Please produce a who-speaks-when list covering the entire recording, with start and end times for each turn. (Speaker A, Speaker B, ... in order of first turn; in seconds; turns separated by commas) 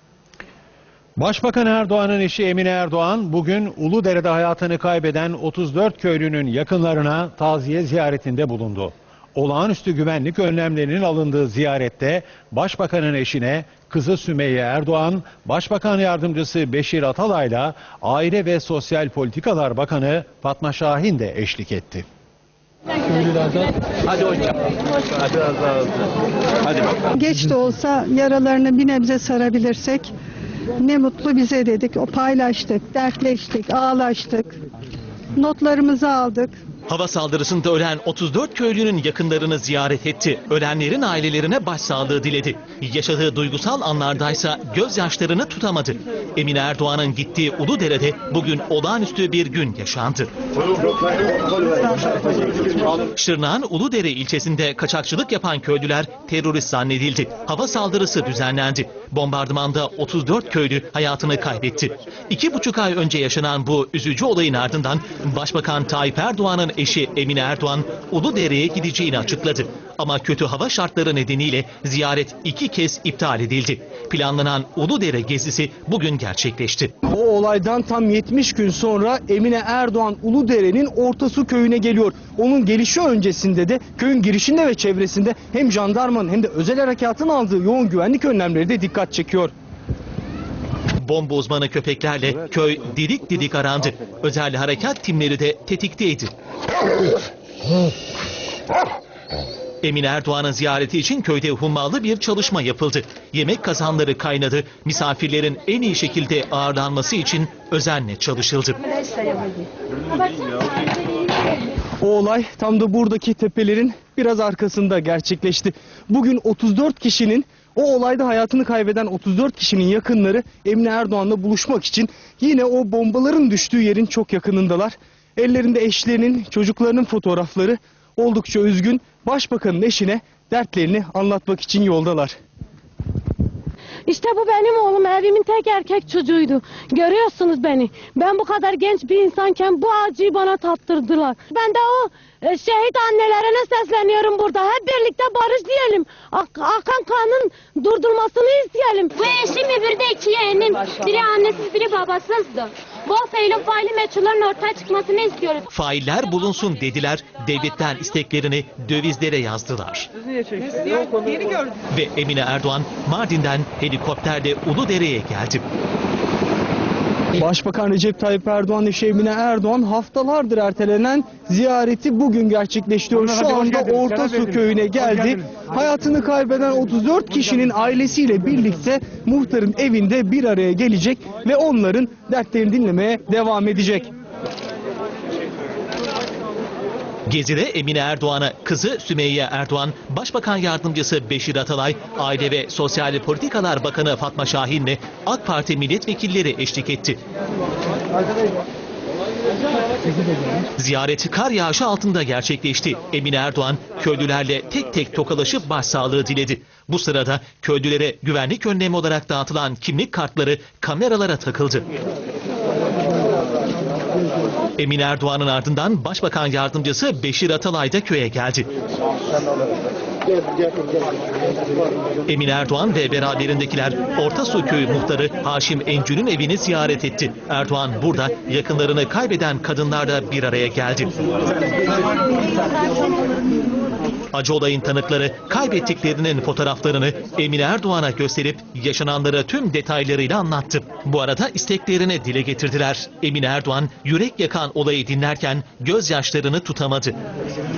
Speaker A: 1.2-22.1, Speaker B: 27.1-30.1, Speaker B: 30.8-34.6, Speaker B: 35.4-36.6, Speaker C: 36.9-50.3, Speaker C: 53.1-76.9, Speaker D: 77.1-89.5, Speaker C: 91.0-96.3, Speaker C: 99.8-108.8, Speaker D: 112.0-132.4, Speaker E: 134.1-149.2, Speaker F: 149.2-155.7, Speaker C: 155.7-160.1, Speaker C: 161.9-165.6, Speaker D: 167.4-184.1, Speaker C: 187.3-197.2, Speaker C: 200.8-211.8, Speaker C: 214.8-218.7, Speaker C: 222.3-231.1, Speaker C: 234.3-247.2